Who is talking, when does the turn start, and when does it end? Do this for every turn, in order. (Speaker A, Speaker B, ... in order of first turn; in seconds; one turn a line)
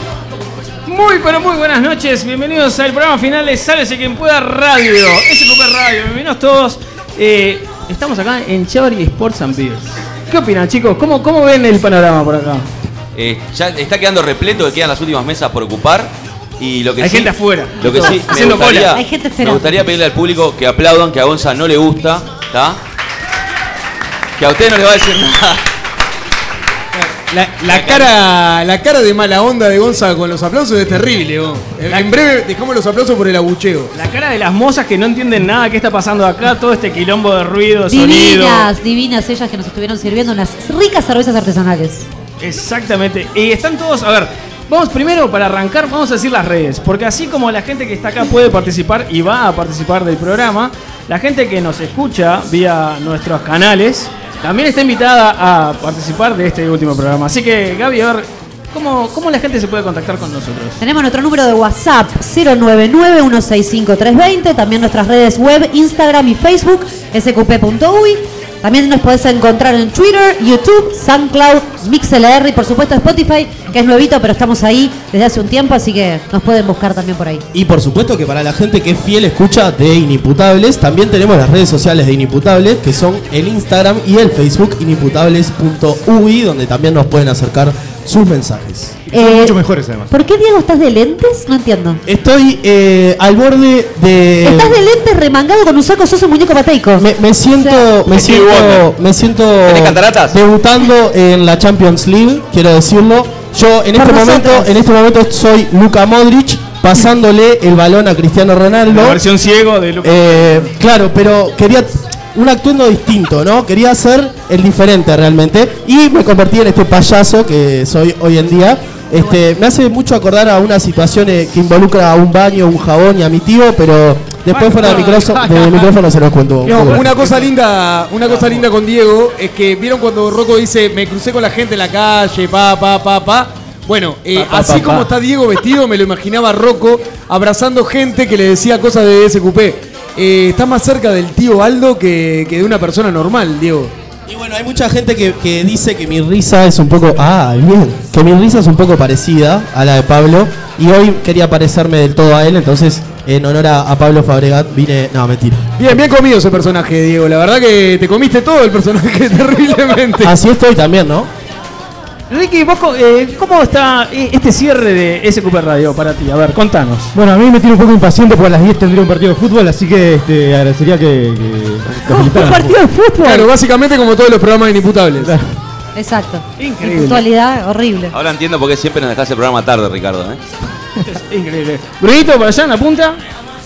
Speaker A: 0.9-12.7
Speaker B: 13.2-22.8
Speaker A: 17.0-19.0
Speaker C: 18.9-19.7
Speaker B: 24.4-25.7
Speaker D: 26.9-33.9
Speaker B: 27.7-28.1
Speaker A: 33.9-38.7
Speaker C: 37.9-42.1
Speaker A: 42.4-60.8
Speaker C: 60.8-77.5
Speaker E: 77.5-89.0
Speaker F: 89.1-90.1
Speaker C: 89.1-89.6
Speaker C: 90.1-92.0
Speaker E: 92.1-94.8
Speaker C: 94.4-97.8
Speaker E: 97.0-109.2
Speaker B: 98.1-98.8
Speaker B: 99.7-100.4
Speaker C: 104.0-104.7
Speaker A: 108.9-110.7
Speaker E: 110.0-127.1
Speaker A: 124.5-125.8
Speaker D: 126.7-143.9
Speaker A: 126.7-127.3
Speaker A: 134.4-135.1
Speaker E: 144.3-155.7
Speaker D: 155.8-160.3
Speaker E: 160.2-161.3
Speaker A: 162.3-167.1
Speaker F: 167.1-172.8
Speaker C: 172.1-173.5
Speaker D: 173.2-175.3
Speaker C: 176.0-178.1
Speaker A: 176.6-177.2
Speaker B: 178.1-180.4
Speaker A: 181.0-183.2